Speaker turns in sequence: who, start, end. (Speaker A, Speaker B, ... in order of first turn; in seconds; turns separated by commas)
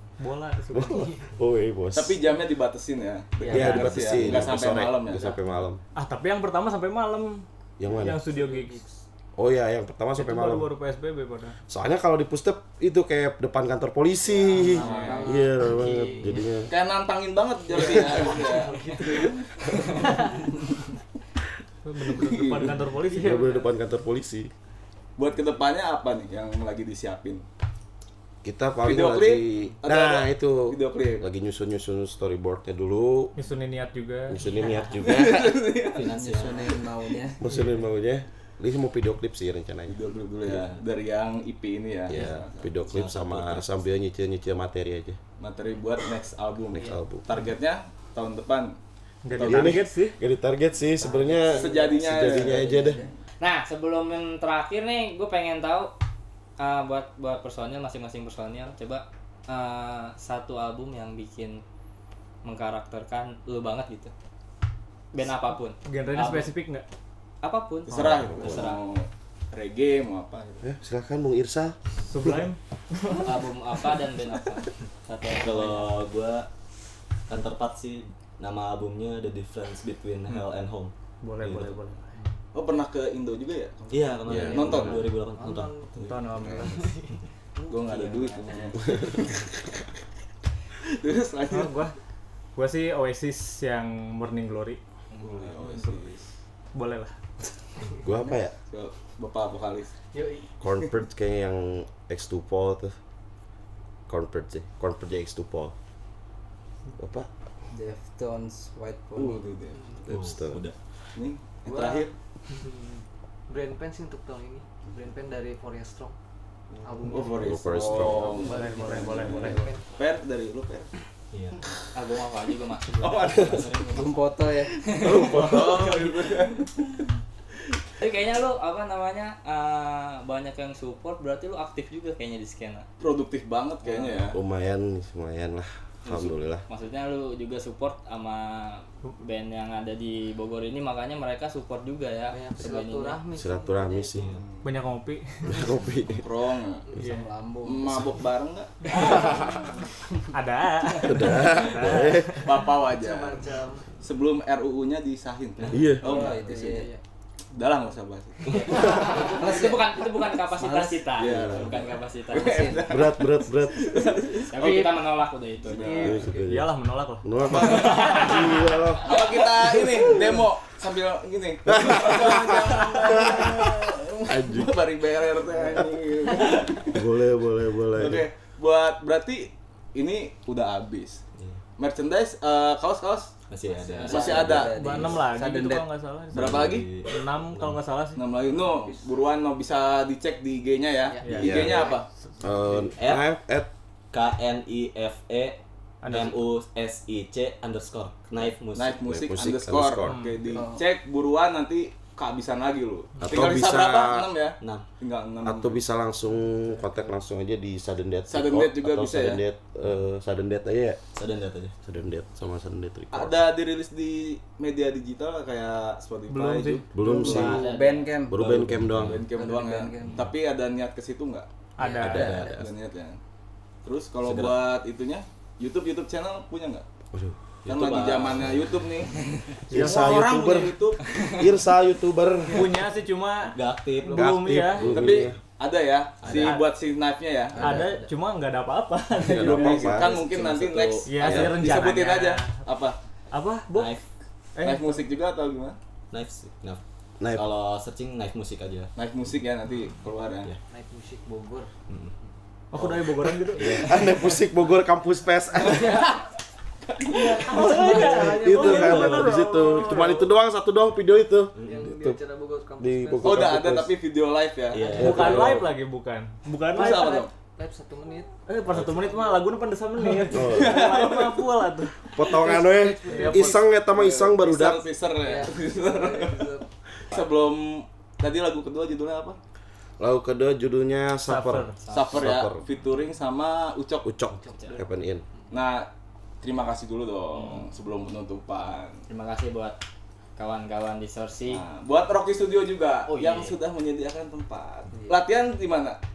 Speaker A: 0.2-1.2, Speaker B: 0.7-2.2, Speaker C: 0.9-1.2, Speaker D: 1.9-5.4, Speaker A: 3.5-4.0, Speaker B: 3.5-5.8, Speaker A: 5.9-8.8, Speaker B: 7.8-8.2, Speaker C: 8.1-9.0, Speaker B: 9.4-10.7, Speaker A: 10.2-11.6, Speaker B: 11.7-16.7, Speaker C: 14.3-16.4, Speaker D: 14.7-15.3, Speaker E: 14.9-15.2, Speaker F: 14.9-15.2, Speaker D: 16.7-20.4, Speaker C: 17.7-20.6, Speaker A: 21.9-23.5, Speaker D: 22.1-22.8, Speaker C: 22.9-23.7, Speaker B: 23.1-24.5, Speaker D: 25.2-27.4, Speaker B: 28.4-33.3, Speaker D: 28.8-31.3, Speaker A: 33.4-34.4, Speaker B: 34.3-35.6, Speaker D: 35.0-36.1, Speaker G: 35.9-36.9, Speaker E: 35.9-37.4, Speaker B: 37.4-40.6, Speaker D: 39.9-42.7, Speaker B: 42.1-45.2, Speaker G: 42.9-43.6, Speaker D: 45.4-48.8, Speaker B: 46.7-47.3, Speaker A: 49.2-50.2, Speaker D: 49.3-49.8, Speaker B: 49.4-53.0, Speaker E: 50.9-53.1, Speaker D: 51.5-52.7, Speaker F: 53.4-55.9, Speaker F: 56.6-61.6, Speaker F: 62.4-64.1, Speaker F: 65.1-66.5, Speaker A: 65.8-66.8, Speaker F: 67.4-68.8, Speaker D: 67.9-70.7, Speaker B: 68.2-68.7, Speaker B: 70.6-72.4, Speaker A: 72.1-73.4, Speaker F: 73.2-75.9, Speaker G: 75.4-76.5, Speaker G: 77.3-81.8, Speaker A: 81.2-82.3, Speaker D: 82.5-85.1, Speaker G: 83.9-86.2, Speaker B: 84.3-84.7, Speaker C: 84.5-89.3, Speaker A: 86.0-86.9, Speaker D: 87.7-89.5, Speaker D: 90.9-91.8, Speaker A: 91.5-91.9, Speaker A: 92.6-94.8, Speaker D: 95.2-96.3, Speaker A: 96.7-97.2, Speaker B: 98.0-98.5, Speaker D: 98.7-99.9, Speaker C: 100.1-100.5, Speaker B: 100.6-103.0, Speaker B: 104.1-105.7, Speaker B: 107.0-107.3, Speaker E: 107.7-109.5, Speaker D: 109.2-109.8, Speaker C: 109.7-110.0, Speaker B: 110.1-110.6, Speaker G: 110.1-110.8, Speaker D: 111.1-112.1, Speaker C: 111.6-116.2, Speaker C: 116.8-119.8, Speaker D: 117.0-120.9, Speaker B: 117.4-118.3, Speaker E: 117.7-118.9, Speaker A: 118.5-119.7, Speaker G: 121.3-121.6, Speaker F: 121.9-123.4, Speaker D: 122.9-124.0, Speaker G: 123.3-124.2, Speaker E: 123.9-124.8, Speaker F: 124.9-126.1, Speaker D: 124.9-126.7, Speaker B: 125.0-125.9, Speaker F: 128.0-132.9, Speaker D: 133.0-134.4, Speaker F: 133.9-134.2, Speaker B: 134.3-136.6, Speaker F: 136.1-143.2, Speaker C: 142.3-144.3, Speaker B: 143.3-144.3, Speaker G: 144.2-144.4, Speaker D: 144.3-144.6, Speaker A: 144.6-145.7, Speaker B: 145.4-146.3, Speaker D: 146.1-146.9, Speaker C: 146.9-147.1, Speaker E: 146.9-148.2, Speaker A: 147.0-147.3, Speaker D: 147.6-149.6, Speaker A: 148.9-149.5, Speaker B: 149.0-149.3, Speaker A: 150.3-152.4, Speaker B: 151.0-152.5, Speaker D: 152.4-153.4, Speaker C: 152.8-153.9, Speaker D: 154.0-156.8, Speaker B: 155.7-156.2, Speaker C: 155.7-157.0, Speaker E: 156.0-156.9, Speaker D: 157.5-158.9, Speaker G: 158.5-159.2, Speaker C: 158.6-159.9, Speaker F: 158.7-162.8, Speaker E: 159.1-159.9, Speaker E: 160.6-161.1, Speaker D: 161.2-164.9, Speaker B: 161.2-161.5, Speaker G: 161.5-161.8, Speaker E: 162.3-162.8, Speaker B: 162.9-164.1, Speaker F: 164.5-166.1, Speaker D: 165.6-166.2, Speaker C: 165.8-166.4, Speaker B: 166.0-170.2, Speaker A: 166.4-168.4, Speaker D: 167.7-168.1, Speaker F: 168.0-168.4, Speaker D: 169.0-177.1, Speaker B: 171.7-173.6, Speaker B: 174.3-174.8, Speaker B: 176.9-178.3, Speaker D: 177.9-181.2, Speaker G: 181.4-181.6, Speaker D: 181.8-183.3, Speaker G: 183.5-185.3, Speaker C: 183.7-184.4, Speaker E: 184.0-185.8, Speaker D: 184.0-184.7, Speaker A: 184.7-188.2, Speaker G: 186.3-187.8, Speaker D: 186.3-186.9, Speaker D: 188.2-192.1, Speaker C: 188.4-189.0, Speaker C: 191.1-192.0, Speaker A: 191.2-191.6, Speaker B: 191.4-191.9, Speaker B: 192.4-193.7, Speaker G: 192.7-193.3, Speaker G: 194.1-199.0, Speaker A: 196.0-196.4, Speaker D: 198.8-205.8, Speaker B: 199.1-200.2, Speaker A: 200.0-200.6, Speaker E: 200.5-200.8, Speaker B: 203.2-204.3, Speaker G: 204.6-204.8, Speaker B: 205.4-211.0, Speaker D: 208.3-209.4, Speaker G: 211.2-211.8, Speaker B: 211.8-213.4, Speaker D: 213.1-216.8, Speaker A: 216.3-216.9, Speaker B: 216.9-217.7, Speaker E: 217.0-218.5, Speaker G: 217.2-219.3, Speaker F: 217.3-218.1, Speaker B: 218.3-219.2, Speaker D: 218.9-221.5, Speaker E: 219.3-220.2, Speaker G: 220.0-220.4, Speaker A: 221.8-222.4, Speaker E: 221.8-222.6, Speaker G: 222.0-222.6, Speaker B: 222.0-222.7, Speaker D: 222.3-223.2, Speaker D: 223.8-226.8, Speaker G: 224.2-224.7, Speaker B: 227.1-227.4, Speaker G: 227.6-229.1, Speaker D: 227.7-231.6, Speaker A: 229.7-230.4, Speaker B: 229.7-230.8, Speaker B: 231.3-232.8, Speaker A: 232.5-235.1, Speaker G: 233.5-234.5, Speaker B: 234.1-235.4, Speaker D: 234.8-237.8, Speaker G: 236.2-236.6, Speaker A: 236.3-236.7, Speaker E: 237.5-238.1, Speaker A: 237.6-240.1, Speaker B: 239.2-241.8, Speaker D: 239.3-243.0, Speaker A: 241.1-242.6, Speaker A: 243.3-243.9, Speaker G: 243.7-244.1, Speaker A: 244.6-245.1, Speaker D: 244.6-245.8, Speaker G: 246.1-248.9, Speaker B: 247.2-247.5, Speaker D: 248.9-250.5, Speaker C: 250.7-251.7, Speaker G: 251.9-252.1, Speaker A: 252.7-253.8, Speaker G: 252.8-253.6, Speaker B: 253.6-256.1, Speaker C: 253.8-254.4, Speaker C: 255.6-256.2, Speaker A: 257.1-260.3, Speaker C: 257.2-258.7, Speaker B: 257.8-262.2, Speaker G: 258.4-259.5, Speaker G: 261.6-261.9, Speaker C: 261.6-263.5, Speaker B: 262.8-263.9, Speaker D: 263.2-264.9, Speaker G: 264.7-265.7, Speaker A: 264.9-267.3, Speaker B: 265.0-265.6, Speaker D: 266.7-267.3, Speaker C: 266.8-268.4, Speaker A: 268.5-272.1, Speaker B: 268.7-269.1, Speaker B: 270.3-270.9, Speaker D: 270.4-271.5, Speaker B: 272.1-274.9, Speaker C: 272.1-273.7, Speaker A: 273.1-273.6, Speaker D: 273.9-276.5, Speaker C: 275.2-276.6, Speaker D: 277.1-279.4, Speaker B: 280.0-282.6, Speaker A: 281.2-281.8, Speaker F: 281.9-282.2, Speaker D: 281.9-284.1, Speaker B: 284.1-285.2, Speaker F: 284.4-284.8, Speaker D: 285.5-285.9, Speaker D: 286.4-289.0, Speaker F: 289.1-289.8, Speaker F: 290.4-291.6, Speaker D: 291.5-296.0, Speaker F: 293.1-293.6